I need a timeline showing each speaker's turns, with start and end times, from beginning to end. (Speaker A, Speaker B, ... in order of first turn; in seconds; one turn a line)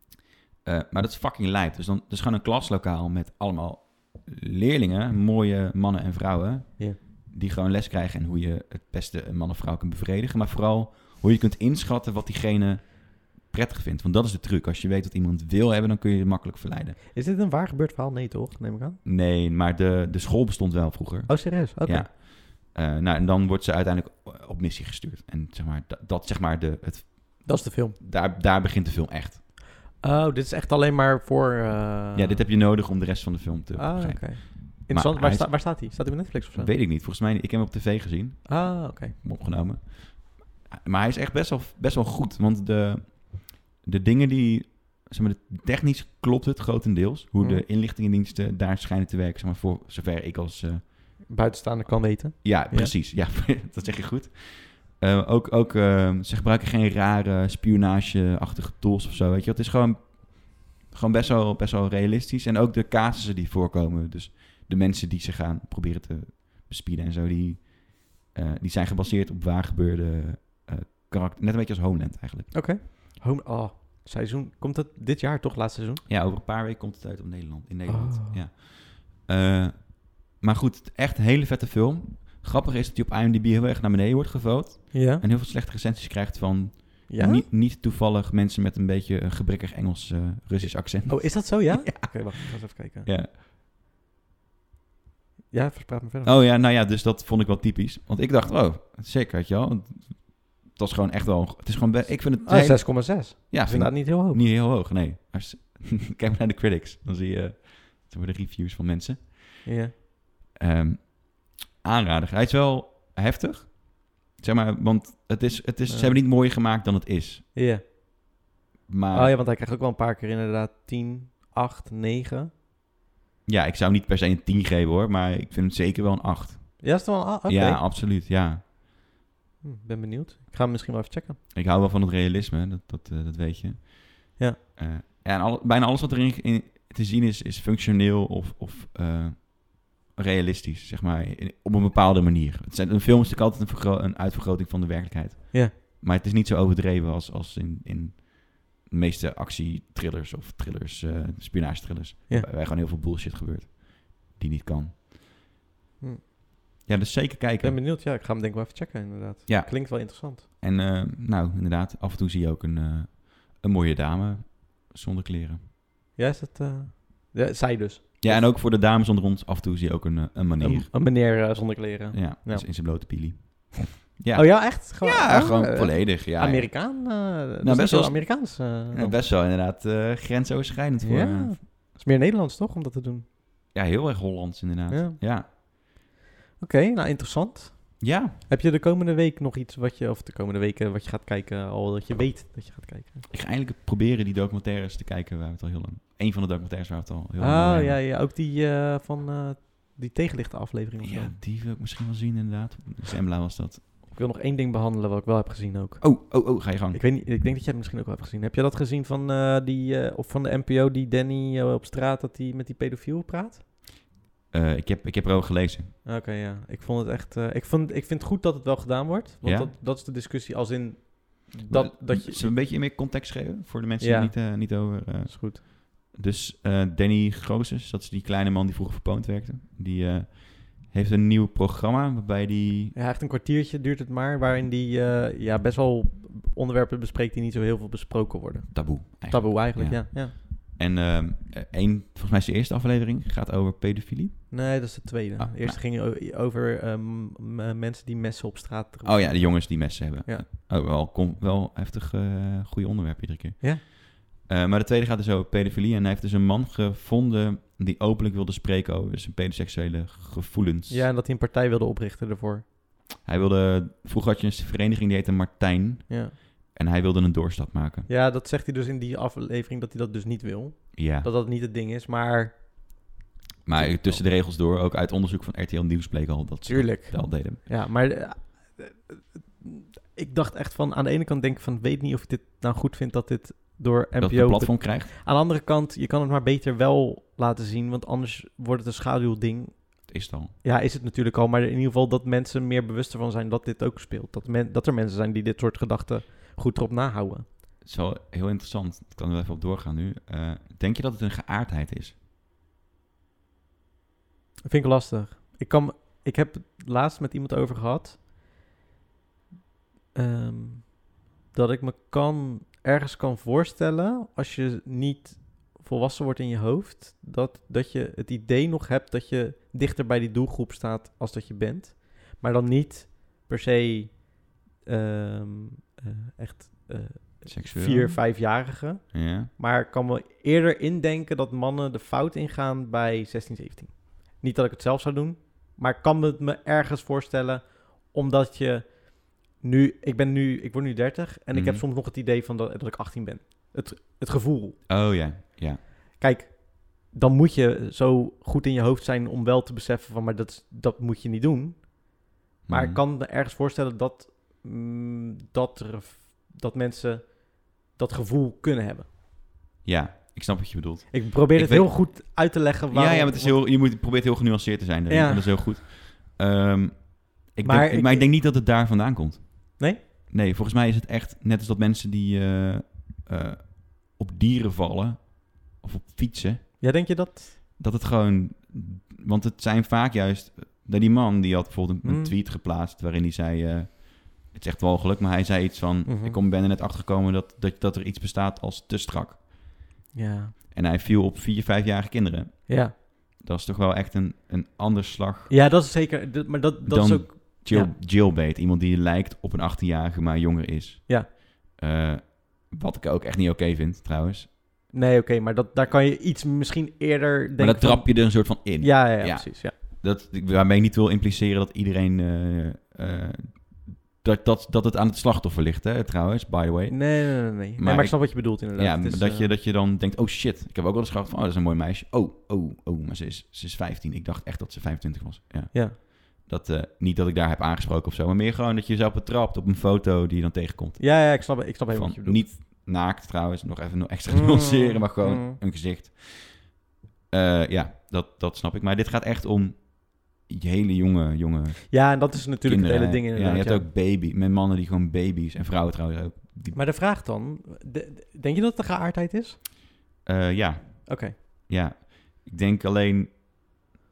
Speaker A: 0.6-17.0
Speaker B: 17.1-19.0
Speaker A: 19.1-29.4
Speaker B: 21.3-22.1
Speaker B: 27.4-28.0
Speaker B: 30.0-32.4
Speaker A: 32.1-51.1
Speaker B: 33.8-36.7
Speaker B: 38.5-39.1
Speaker B: 51.3-52.9
Speaker A: 52.4-72.6
Speaker B: 72.5-76.0
Speaker A: 76.1-93.3
Speaker B: 77.9-78.4
Speaker B: 84.9-85.2
Speaker B: 87.1-87.5
Speaker B: 91.1-93.1
Speaker B: 95.5-96.3
Speaker A: 96.2-109.7
Speaker B: 102.4-104.4
Speaker B: 109.6-109.9
Speaker A: 110.5-117.5
Speaker B: 115.9-116.1
Speaker B: 117.5-117.8
Speaker A: 118.9-119.3
Speaker B: 119.1-122.5
Speaker A: 123.5-128.6
Speaker B: 126.8-127.8
Speaker B: 129.6-131.4
Speaker A: 131.5-155.0
Speaker A: 156.9-157.8
Speaker B: 157.6-160.4
Speaker A: 159.5-165.6
Speaker B: 166.2-168.5
Speaker A: 168.2-170.9
Speaker B: 170.6-173.2
Speaker A: 172.1-181.6
Speaker B: 174.3-179.2
Speaker B: 181.0-183.2
Speaker A: 183.7-185.5
Speaker B: 184.9-185.2
Speaker B: 186.6-193.3
Speaker A: 188.0-188.3
Speaker A: 193.3-198.0
Speaker B: 197.4-201.3
Speaker A: 201.0-203.9
Speaker B: 204.1-213.6
Speaker A: 206.0-207.0
Speaker A: 214.5-215.9
Speaker B: 216.1-222.6
Speaker A: 219.4-219.7
Speaker A: 221.7-232.9
Speaker B: 224.0-225.6
Speaker B: 232.9-240.3
Speaker A: 238.7-245.8
Speaker B: 244.5-250.4
Speaker A: 249.0-261.1
Speaker B: 260.9-262.7
Speaker A: 263.2-268.1
Speaker B: 266.1-266.3
Speaker B: 268.1-273.1
Speaker A: 270.9-271.3
Speaker A: 273.6-277.6
Speaker B: 273.7-274.2
Speaker B: 276.7-297.4
Speaker A: 284.2-285.1
Speaker A: 290.1-290.5
Speaker A: 297.8-302.1
Speaker B: 304.7-308.2
Speaker B: 310.1-344.8
Speaker A: 327.4-328.4
Speaker A: 329.1-329.5
Speaker A: 341.5-341.8
Speaker A: 344.9-345.8
Speaker B: 346.2-359.1
Speaker A: 352.7-353.0
Speaker A: 359.8-376.9
Speaker B: 361.1-363.6
Speaker B: 365.1-365.5
Speaker B: 367.6-368.3
Speaker B: 376.8-377.5
Speaker A: 377.8-389.7
Speaker B: 382.0-382.3
Speaker B: 386.1-386.4
Speaker B: 390.1-390.6
Speaker A: 390.7-395.5
Speaker B: 392.7-392.9
Speaker B: 395.5-397.9
Speaker A: 396.9-404.5
Speaker B: 404.9-409.7
Speaker A: 407.6-446.8
Speaker B: 416.9-419.5
Speaker B: 431.0-432.5
Speaker B: 434.3-435.6
Speaker B: 441.9-443.9
Speaker B: 446.7-449.6
Speaker A: 450.2-453.7
Speaker B: 451.1-451.4